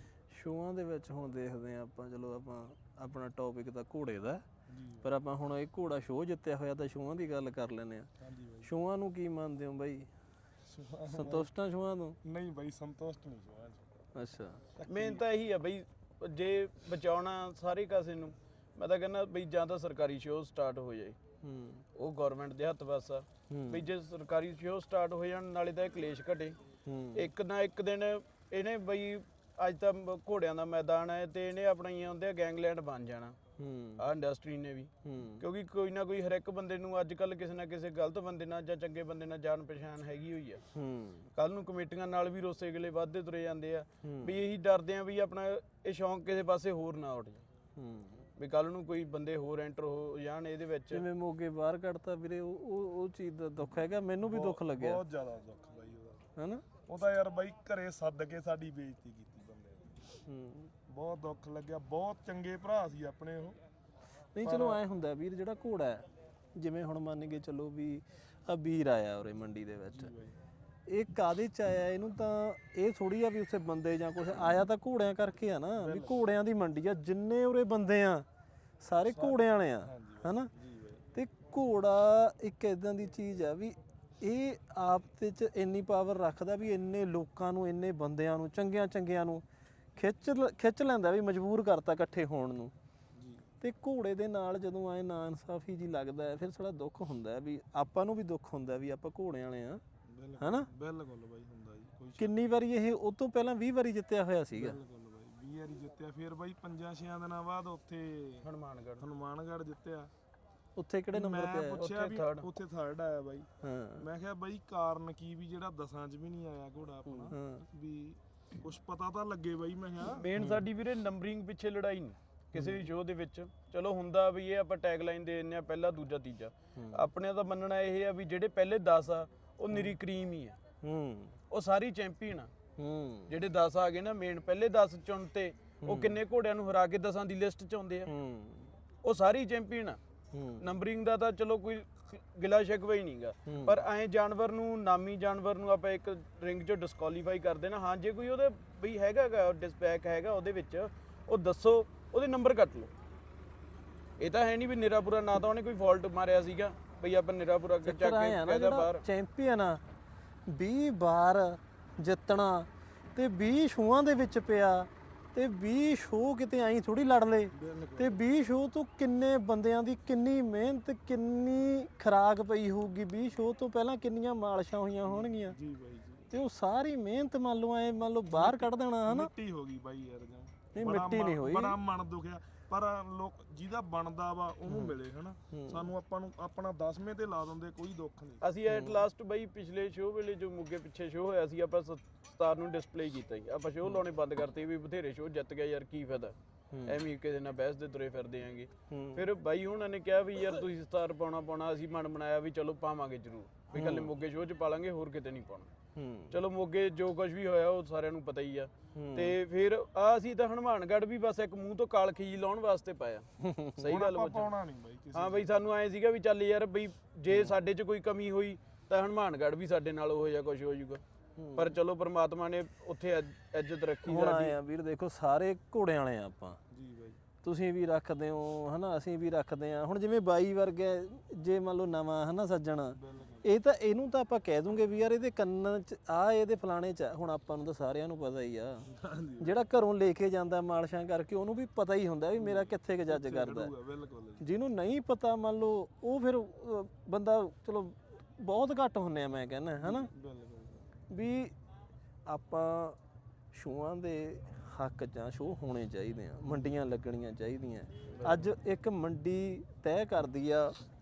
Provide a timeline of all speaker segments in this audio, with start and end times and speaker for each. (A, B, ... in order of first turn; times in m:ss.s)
0:00.3-0:04.4 A
0:04.7-0:05.1 B
0:05.0-0:08.1 A
0:08.2-0:08.7 B
0:08.6-0:10.1 A
0:10.6-0:11.5 B
0:11.1-0:12.2 A
0:12.2-0:13.9 B
0:14.1-0:14.6 A
0:14.7-0:15.2 B
0:14.8-0:21.2 C
0:21.4-0:21.8 A
0:21.9-0:26.6 C
0:23.5-0:23.8 A
0:26.8-0:27.3 A
0:27.1-0:33.4 C
0:33.6-0:34.0 A
0:34.0-0:40.6 C
0:35.0-0:35.4 A
0:40.7-0:41.3 A
0:41.3-0:47.4 C
0:44.0-0:44.4 A
0:47.8-0:48.3 A
0:48.4-0:51.0 C
0:50.9-0:55.0 A
0:54.2-0:56.3 B
0:56.4-0:56.7 A
0:56.9-1:00.2 B
1:00.2-1:00.7 A
1:00.9-1:03.6 B
1:04.3-1:10.1 A
1:04.4-1:04.8 B
1:09.9-1:10.4 B
1:10.9-1:18.2 A
1:15.8-1:16.3 B
1:18.8-1:20.5 A
1:19.1-1:21.1 B
1:21.1-1:29.4 A
1:30.0-1:32.7 A
1:33.1-1:33.5 B
1:33.6-1:39.8 A
1:40.0-1:42.4 B
1:40.4-1:40.7 A
1:42.2-1:44.8 A
1:44.5-1:50.1 B
1:48.4-1:49.1 C
1:50.8-1:51.9 A
1:51.1-2:00.3 B
1:51.7-1:52.5 C
1:53.6-1:54.1 A
1:57.3-1:57.7 A
2:00.0-2:10.6 C
2:00.4-2:00.6 A
2:02.5-2:02.9 A
2:06.8-2:07.0 A
2:10.8-2:11.3 A
2:11.5-2:12.5 C
2:12.8-2:13.3 A
2:13.3-2:18.1 C
2:15.8-2:16.2 A
2:18.0-2:18.7 A
2:19.0-2:20.0 C
2:20.3-2:20.7 A
2:20.6-2:32.9 C
2:23.4-2:23.8 A
2:34.2-2:39.0 C
2:37.8-2:39.8 A
2:40.5-2:55.6 A
2:47.5-2:48.2 B
2:55.1-2:56.3 B
2:56.3-2:59.3 A
2:58.3-3:08.4 B
3:00.7-3:01.8 A
3:04.7-3:05.0 A
3:05.5-3:05.9 A
3:08.4-3:25.7 C
3:08.7-3:09.0 A
3:16.7-3:17.0 A
3:18.9-3:19.2 A
3:23.7-3:24.1 A
3:25.9-3:26.4 A
3:26.3-3:34.5 C
3:28.9-3:29.3 A
3:33.4-3:34.0 A
3:33.8-3:35.5 B
3:35.1-3:41.0 C
3:37.3-3:37.5 A
3:41.4-3:41.7 A
3:41.5-3:44.6 C
3:44.0-3:46.6 A
3:46.7-3:47.2 B
3:47.4-3:58.8 A
3:52.9-3:53.5 B
3:58.9-3:59.5 B
3:59.4-4:03.7 A
4:02.4-4:04.4 B
4:04.4-4:10.1 A
4:09.8-4:10.9 B
4:11.1-4:11.5 A
4:12.3-4:13.0 A
4:13.5-4:20.8 A
4:18.0-4:18.4 C